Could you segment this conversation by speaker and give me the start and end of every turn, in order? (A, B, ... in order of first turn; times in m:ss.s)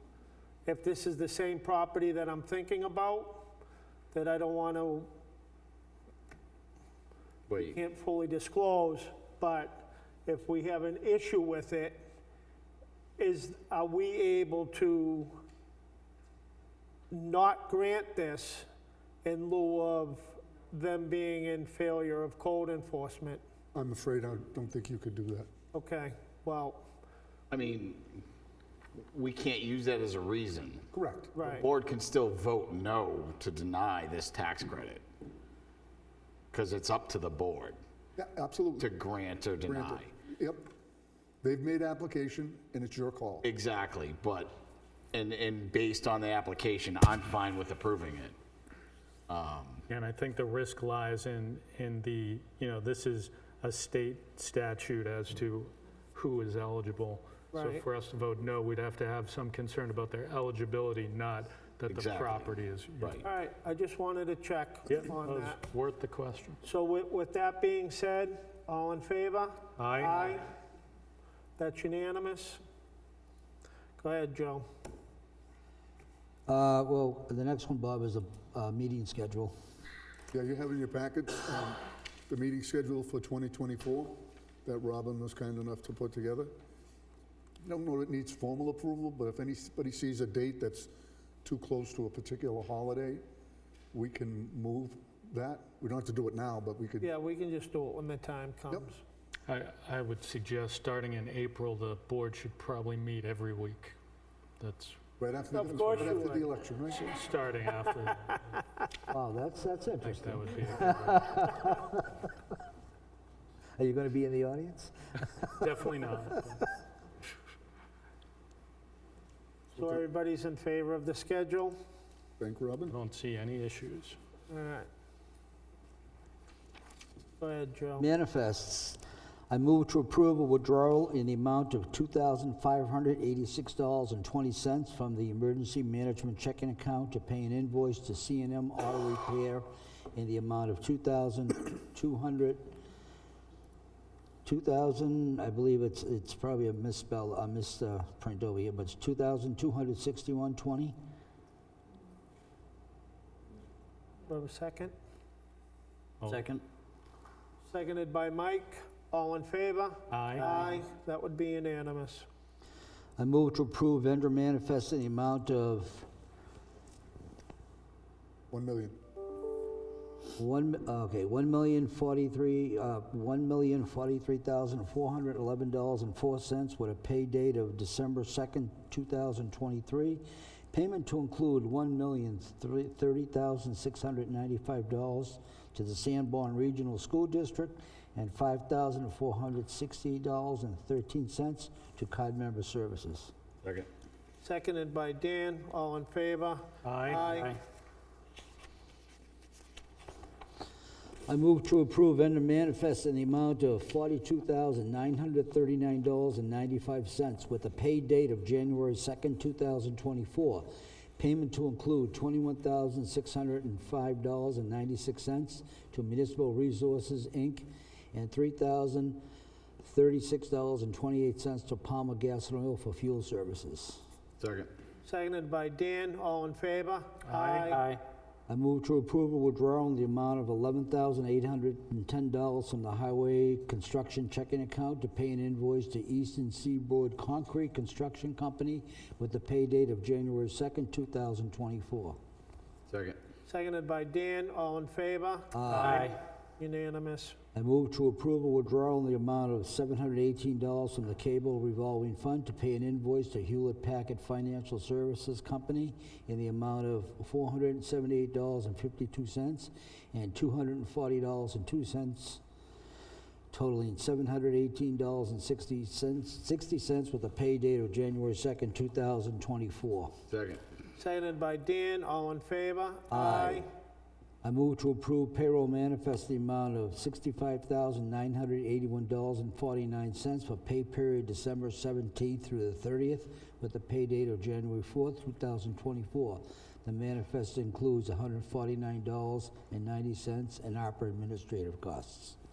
0:00.6-0:03.5 A
0:04.1-0:05.1 A
0:07.5-0:07.8 B
0:07.7-0:12.0 A
0:13.2-0:15.4 A
0:17.1-0:18.7 A
0:19.2-0:23.4 A
0:23.7-0:25.5 C
0:25.7-0:26.9 A
0:27.5-0:28.2 B
0:29.1-0:30.8 B
0:30.9-0:31.4 C
0:31.3-0:31.7 A
0:31.6-0:35.0 B
0:36.5-0:37.8 B
0:38.2-0:38.9 C
0:38.8-0:40.1 B
0:39.6-0:40.7 C
0:41.4-0:43.5 C
0:43.4-0:44.6 B
0:45.1-0:48.3 B
0:49.3-0:49.8 B
0:49.9-1:03.2 D
0:57.5-0:57.8 A
1:01.9-1:03.2 B
1:03.2-1:05.6 A
1:04.9-1:06.6 D
1:06.6-1:10.5 A
1:09.8-1:10.2 D
1:11.6-1:12.6 A
1:14.0-1:14.7 A
1:16.5-1:19.5 E
1:20.3-1:26.5 C
1:27.6-1:30.9 C
1:31.4-1:33.2 C
1:33.9-1:37.1 C
1:37.0-1:39.0 A
1:39.5-1:44.0 D
1:44.6-1:45.0 D
1:45.2-1:47.2 C
1:45.5-1:46.5 A
1:46.9-1:48.6 D
1:49.1-1:52.3 E
1:50.0-1:51.3 D
1:53.8-1:56.6 E
1:55.6-1:56.6 D
1:59.7-2:01.8 A
2:02.4-2:02.9 C
2:02.9-2:04.2 D
2:04.5-2:04.9 A
2:07.4-2:08.1 A
2:08.0-2:22.8 E
2:24.4-2:30.9 E
2:34.3-2:34.9 A
2:36.2-2:36.4 D
2:36.3-2:36.6 E
2:37.7-2:42.2 A
2:40.1-2:40.5 D
2:43.2-2:46.1 E
2:48.5-2:49.0 C
2:50.4-3:13.3 E
3:13.6-3:13.9 B
3:14.4-3:17.6 A
3:16.8-3:17.6 D
3:21.3-3:39.2 E
3:39.8-3:44.0 E
3:44.4-3:44.7 B
3:45.0-3:47.8 A
3:47.3-3:48.0 D
3:48.5-4:02.2 E
4:02.9-4:03.2 B
4:03.5-4:07.4 A
4:05.5-4:06.1 E
4:07.5-4:22.4 E
4:23.5-4:30.2 E
4:30.3-4:30.6 B
4:31.0-4:33.7 A
4:33.1-4:33.6 E
4:34.4-4:52.4 E